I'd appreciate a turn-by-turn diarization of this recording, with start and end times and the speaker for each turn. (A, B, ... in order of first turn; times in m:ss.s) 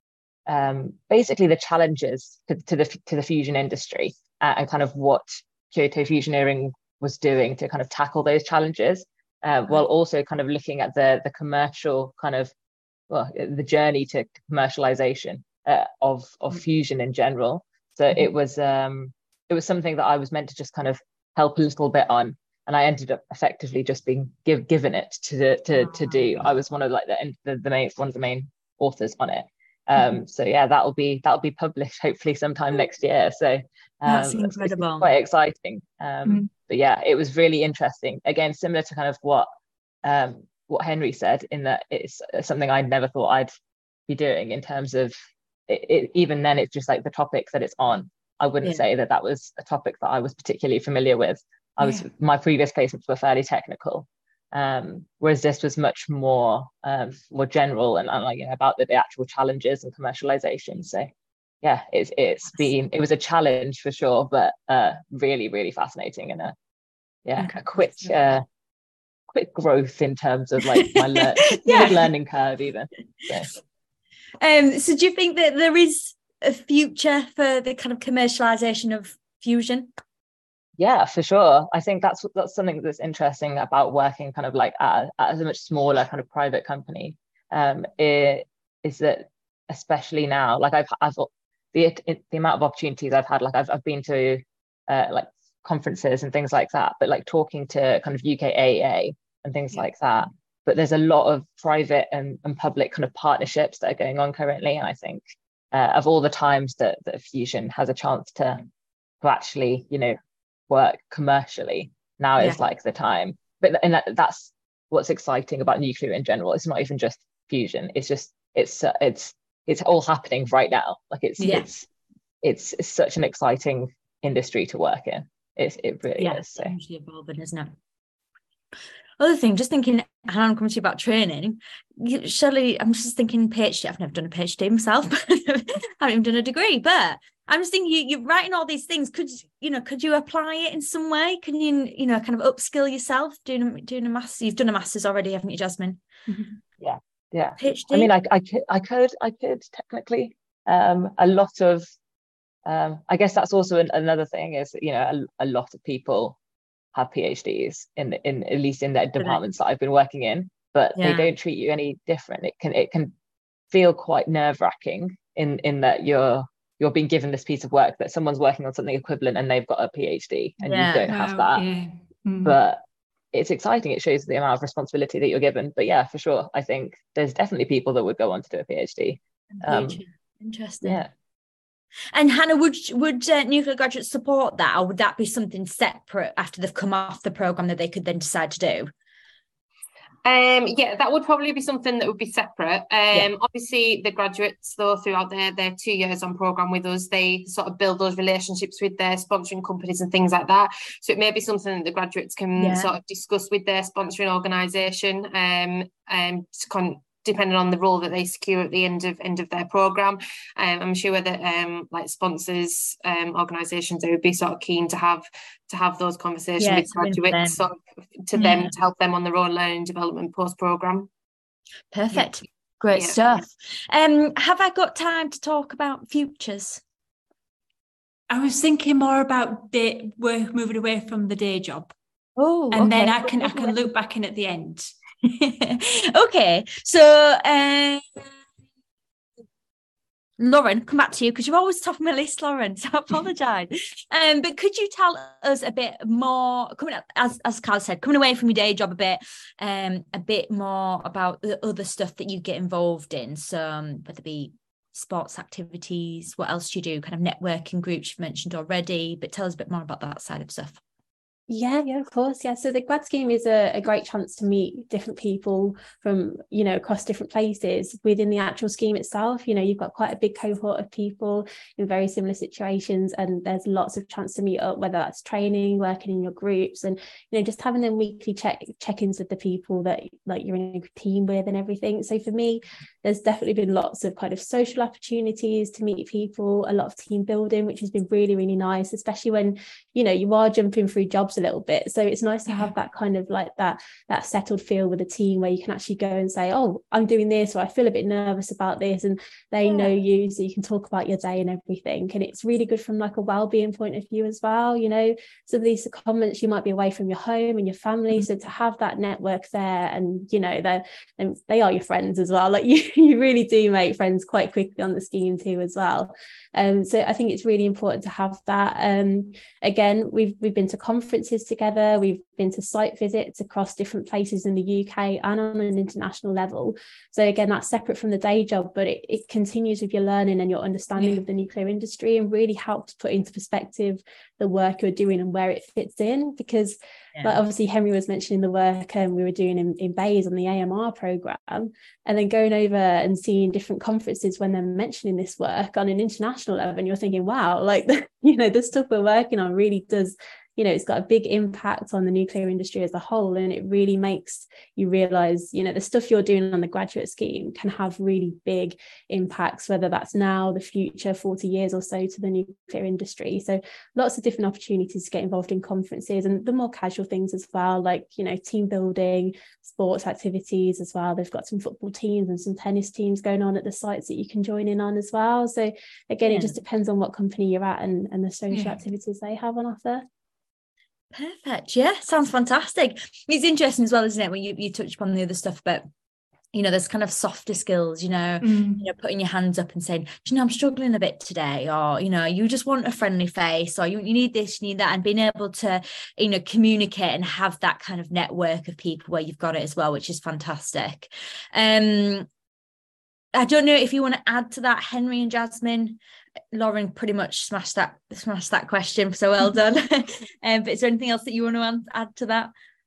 0:00.5-0:12.5 A
0:13.1-0:39.5 A
0:25.8-0:26.3 B
0:34.1-0:35.1 B
0:40.0-0:43.5 A
0:44.1-0:45.1 A
0:45.7-1:01.1 A
0:51.8-0:52.1 C
1:01.6-1:06.5 A
1:07.3-1:08.4 A
1:09.3-1:13.6 A
1:10.6-1:12.0 B
1:14.4-1:19.9 B
1:20.8-1:45.2 A
1:45.7-1:48.6 A
1:49.2-1:50.2 A
1:50.7-2:01.8 A
2:01.4-2:01.7 B
2:02.4-2:06.8 A
2:06.2-2:07.7 B
2:09.2-2:26.0 B
2:26.8-2:31.9 A
2:27.6-2:28.1 B
2:32.7-2:36.4 A
2:36.9-2:43.1 A
2:41.0-2:41.3 B
2:43.7-2:51.6 A
2:50.6-2:51.1 B
2:51.1-2:52.6 C
2:52.4-2:52.8 A
2:53.3-3:00.0 A
2:59.5-3:01.0 B
3:00.8-3:01.1 A
3:02.1-3:08.9 B
3:10.2-3:41.1 D
3:22.6-3:22.9 B
3:36.6-3:37.6 B
3:38.4-3:38.7 B
3:41.9-3:46.8 B
3:42.9-3:43.2 D
3:48.3-3:51.9 C
3:52.4-3:53.8 B
3:52.7-3:54.9 C
3:55.2-3:58.2 B
4:00.4-4:20.8 B
4:21.5-6:20.0 E
6:16.2-6:16.6 B
6:18.5-6:18.8 C
6:21.1-6:25.8 B
6:26.5-6:42.3 B
6:28.4-6:28.8 C
6:43.4-6:46.0 B
6:46.5-6:52.5 B